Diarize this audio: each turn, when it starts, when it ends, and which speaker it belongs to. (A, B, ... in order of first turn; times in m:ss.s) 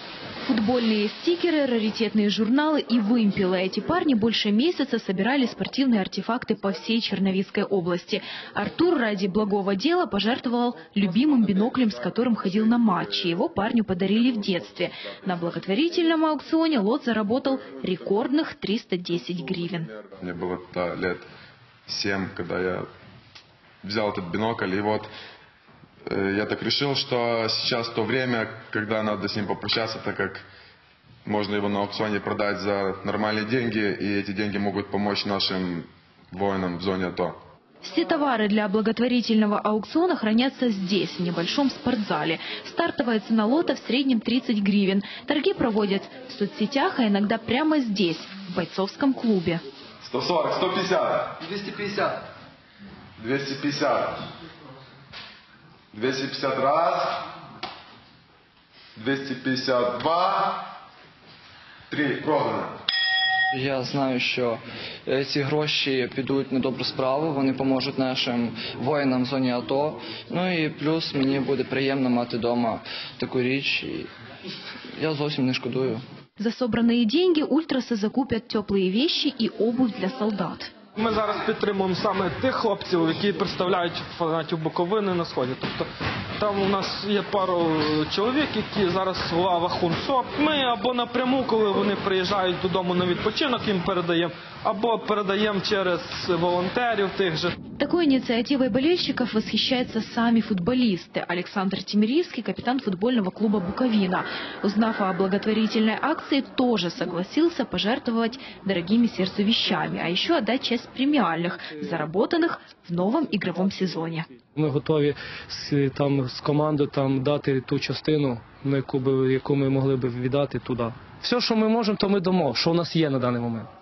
0:00.4-0:19.9 A
0:20.1-0:21.3 B
0:21.9-0:22.9 B
0:23.8-0:25.1 B
0:26.0-0:30.4 B
0:31.2-0:37.4 B
0:37.8-0:49.6 A
0:50.0-0:51.4 B
0:51.6-0:52.1 C
0:53.2-0:54.2 B
0:55.9-0:57.2 B
0:59.0-1:00.6 B
1:01.9-1:02.8 B
1:03.5-1:14.1 C
1:15.0-1:16.0 C
1:16.4-1:20.7 A
1:21.0-1:37.5 D
1:37.8-1:54.3 A
1:54.5-2:03.7 E